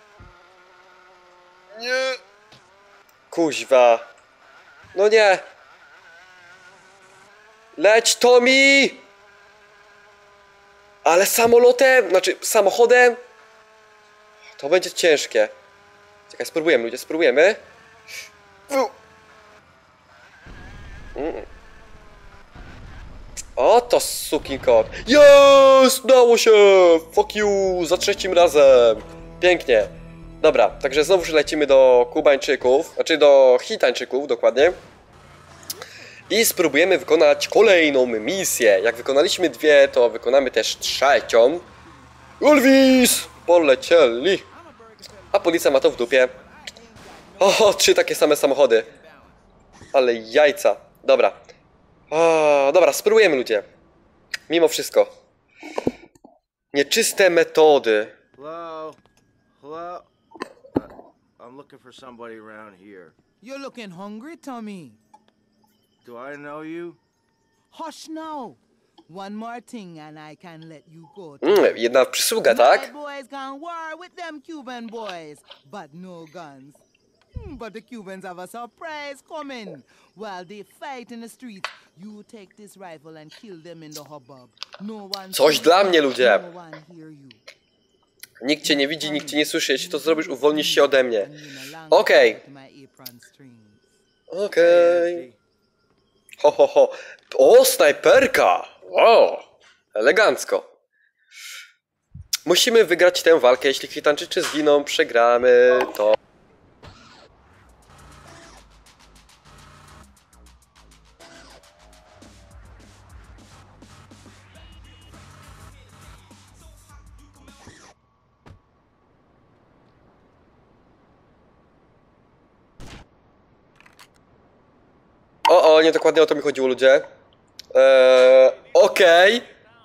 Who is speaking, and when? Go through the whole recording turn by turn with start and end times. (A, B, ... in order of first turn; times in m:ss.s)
0:01.8-0:02.2 A
0:03.3-0:04.0 A
0:04.9-0:05.4 A
0:07.8-0:09.0 A
0:11.0-0:13.2 A
0:14.6-0:15.5 A
0:16.3-0:17.6 A
0:21.2-0:21.4 A
0:23.6-0:34.8 A
0:36.3-0:41.7 A
0:42.4-0:44.4 A
0:45.3-0:46.3 A
0:47.4-0:48.9 A
0:49.9-0:51.4 A
0:52.1-0:53.6 A
0:54.5-0:55.1 A
0:56.7-0:58.1 A
0:58.4-0:59.0 B
0:59.6-1:00.1 B
1:00.7-1:03.2 B
1:03.4-1:05.0 C
1:06.0-1:07.0 B
1:07.7-1:11.9 C
1:11.4-1:12.9 A
1:12.4-1:16.8 C
1:17.4-1:27.4 C
1:25.3-1:26.4 A
1:28.4-1:31.3 A
1:28.6-1:33.8 C
1:31.9-1:32.4 A
1:34.3-1:35.2 A
1:34.6-1:35.4 B
1:36.4-1:40.7 A
1:42.4-1:46.2 A
2:05.5-2:07.0 A
2:07.7-2:09.5 A